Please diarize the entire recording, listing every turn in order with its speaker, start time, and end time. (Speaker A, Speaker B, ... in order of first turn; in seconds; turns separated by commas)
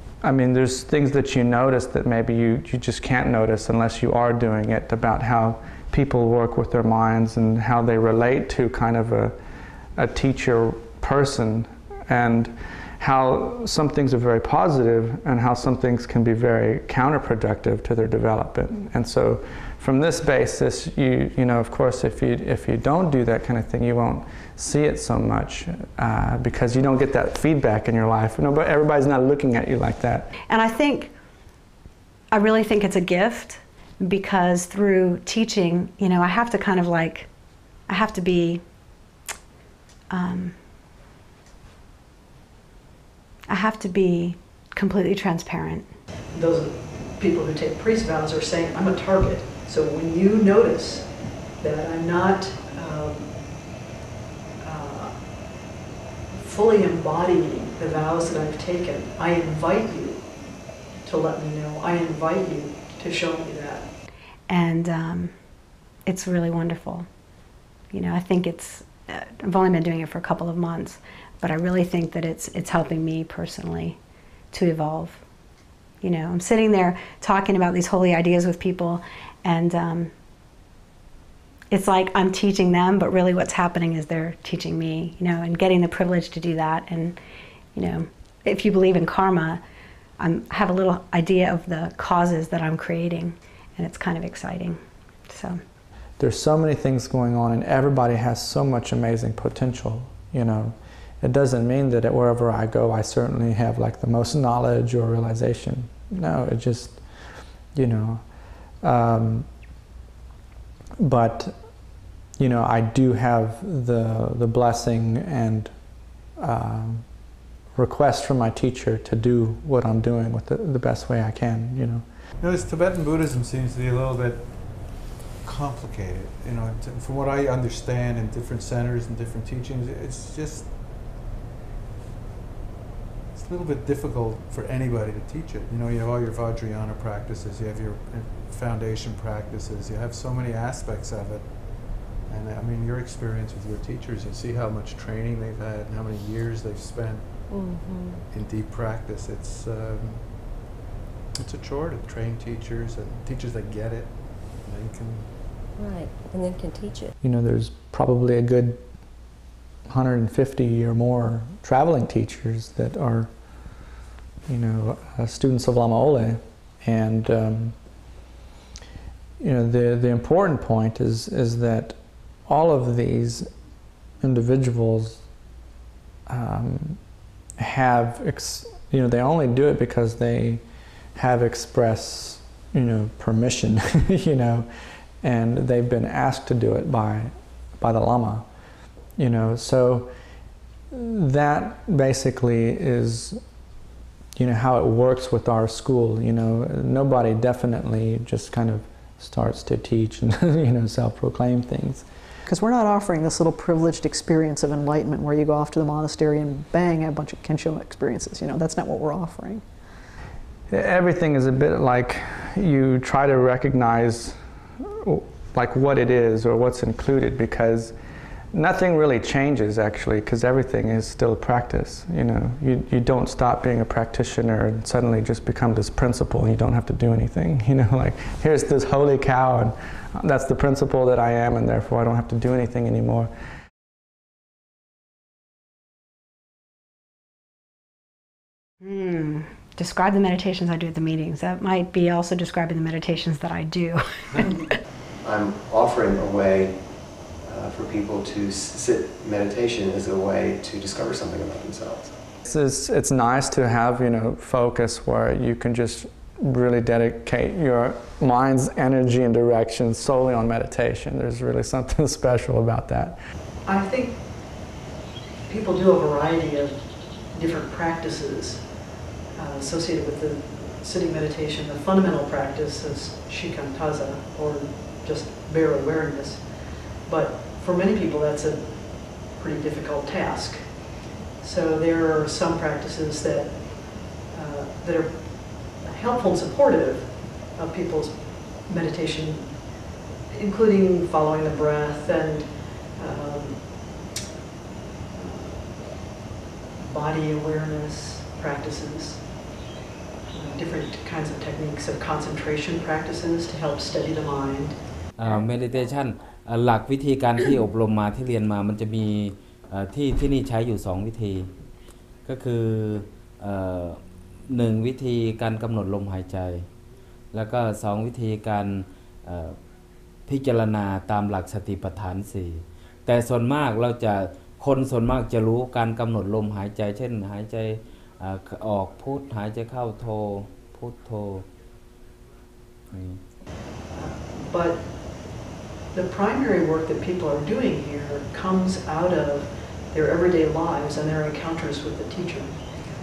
Speaker A: 0.2-9.4, Speaker A: 10.0-30.3, Speaker B: 30.5-31.1, Speaker B: 32.3-37.3, Speaker B: 37.9-38.6, Speaker B: 40.1-40.6, Speaker B: 43.5-45.9, Speaker C: 46.3-53.5, Speaker C: 54.6-55.2, Speaker C: 56.4-60.3, Speaker C: 61.0-63.9, Speaker B: 64.5-65.3, Speaker B: 66.1-67.1, Speaker B: 67.9-74.0, Speaker B: 74.5-75.2, Speaker B: 76.0-80.1, Speaker B: 81.7-87.2, Speaker B: 87.8-89.6, Speaker B: 90.2-95.6, Speaker A: 96.2-107.0, Speaker A: 107.7-108.2, Speaker A: 108.8-109.5, Speaker A: 111.0-111.6, Speaker A: 112.4-115.7, Speaker A: 116.4-117.1, Speaker A: 117.8-122.1, Speaker D: 122.4-130.8, Speaker D: 133.3-147.3, Speaker E: 147.5-148.2, Speaker D: 148.3-150.4, Speaker D: 151.3-155.3, Speaker E: 155.8-157.1, Speaker A: 157.2-158.8, Speaker A: 159.9-163.9, Speaker A: 164.5-167.8, Speaker A: 169.4-173.5, Speaker A: 174.2-175.2, Speaker A: 176.3-177.0, Speaker A: 177.6-180.6, Speaker A: 181.2-184.7, Speaker A: 185.2-188.5, Speaker A: 189.2-190.1, Speaker A: 190.9-193.4, Speaker A: 194.4-202.1, Speaker F: 202.5-209.6, Speaker A: 210.7-217.9, Speaker A: 218.5-233.3, Speaker B: 238.8-244.8, Speaker G: 245.2-246.8, Speaker G: 247.4-252.2, Speaker A: 252.4-263.2, Speaker C: 263.7-264.2, Speaker C: 265.5-268.6, Speaker C: 269.4-280.7, Speaker C: 281.4-289.6, Speaker C: 290.3-294.0, Speaker C: 295.1-296.1, Speaker C: 296.8-299.3, Speaker C: 300.3-304.8, Speaker H: 305.2-311.5, Speaker H: 312.3-316.7, Speaker H: 317.3-319.6, Speaker H: 320.3-331.5, Speaker H: 332.9-333.2, Speaker C: 333.9-335.1, Speaker C: 335.9-342.6